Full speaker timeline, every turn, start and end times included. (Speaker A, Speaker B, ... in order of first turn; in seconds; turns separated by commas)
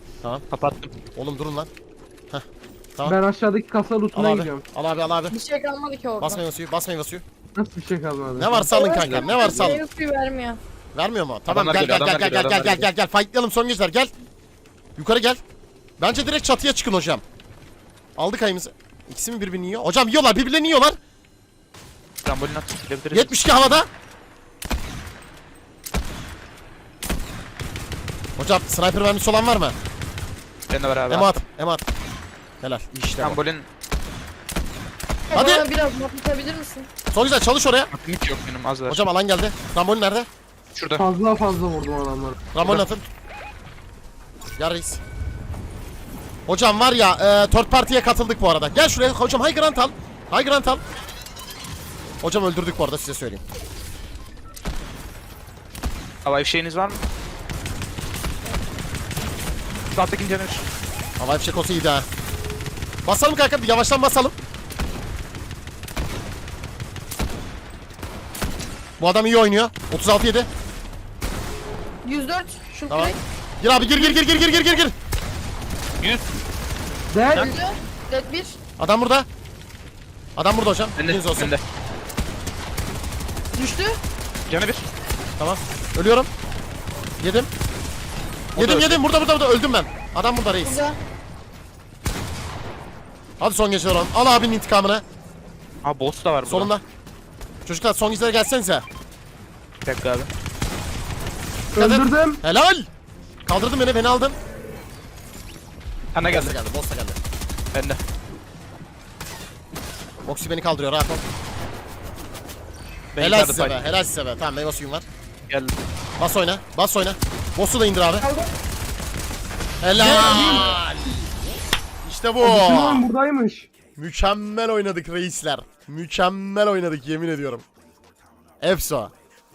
Speaker A: 0.5-0.9, Speaker B: 1.2-1.7, Speaker C: 3.0-4.6, Speaker B: 4.1-5.3, Speaker D: 5.3-6.4, Speaker B: 6.2-7.2, Speaker C: 7.5-8.7, Speaker B: 8.4-9.8, Speaker D: 8.7-10.6, Speaker A: 8.9-9.6, Speaker B: 10.9-14.1, Speaker A: 11.5-12.9, Speaker B: 15.0-15.4, Speaker B: 16.0-17.2, Speaker B: 18.2-21.0, Speaker A: 22.2-23.4, Speaker B: 23.1-23.9, Speaker B: 28.4-29.8, Speaker A: 30.7-31.3, Speaker B: 31.1-31.9, Speaker B: 32.6-33.4, Speaker A: 33.2-33.7, Speaker D: 35.3-36.9, Speaker B: 35.3-35.7, Speaker B: 37.1-37.9, Speaker A: 37.9-39.0, Speaker B: 38.9-40.3, Speaker A: 40.8-41.0, Speaker C: 41.0-42.9, Speaker B: 42.5-43.1, Speaker B: 44.6-45.0, Speaker B: 46.5-50.8, Speaker B: 52.2-53.4, Speaker A: 56.2-57.0, Speaker A: 59.9-60.6, Speaker B: 61.2-62.1, Speaker B: 63.0-64.3, Speaker B: 69.0-70.5, Speaker D: 72.0-73.2, Speaker B: 72.9-74.9, Speaker C: 77.1-77.5, Speaker D: 77.3-78.6, Speaker B: 78.8-79.3, Speaker B: 80.4-81.5, Speaker A: 81.0-81.6, Speaker D: 83.5-84.0, Speaker A: 84.5-84.9, Speaker B: 85.4-86.3, Speaker B: 87.2-87.5, Speaker A: 88.5-89.0, Speaker B: 88.6-90.8, Speaker D: 90.6-91.0, Speaker B: 93.4-95.0, Speaker A: 95.8-96.7, Speaker B: 96.5-96.8, Speaker B: 97.7-98.8, Speaker A: 99.8-100.3, Speaker C: 101.7-102.4, Speaker B: 101.8-102.9, Speaker B: 103.5-104.4, Speaker A: 106.1-106.5, Speaker B: 106.3-107.2, Speaker A: 107.7-108.0, Speaker B: 110.2-111.2, Speaker A: 113.1-113.9, Speaker B: 113.2-115.0, Speaker A: 115.5-115.8, Speaker B: 116.2-118.3, Speaker D: 118.2-118.5, Speaker B: 119.8-121.3, Speaker C: 120.0-120.8, Speaker B: 122.0-123.1, Speaker C: 122.4-123.7, Speaker B: 124.0-127.6, Speaker B: 128.6-129.1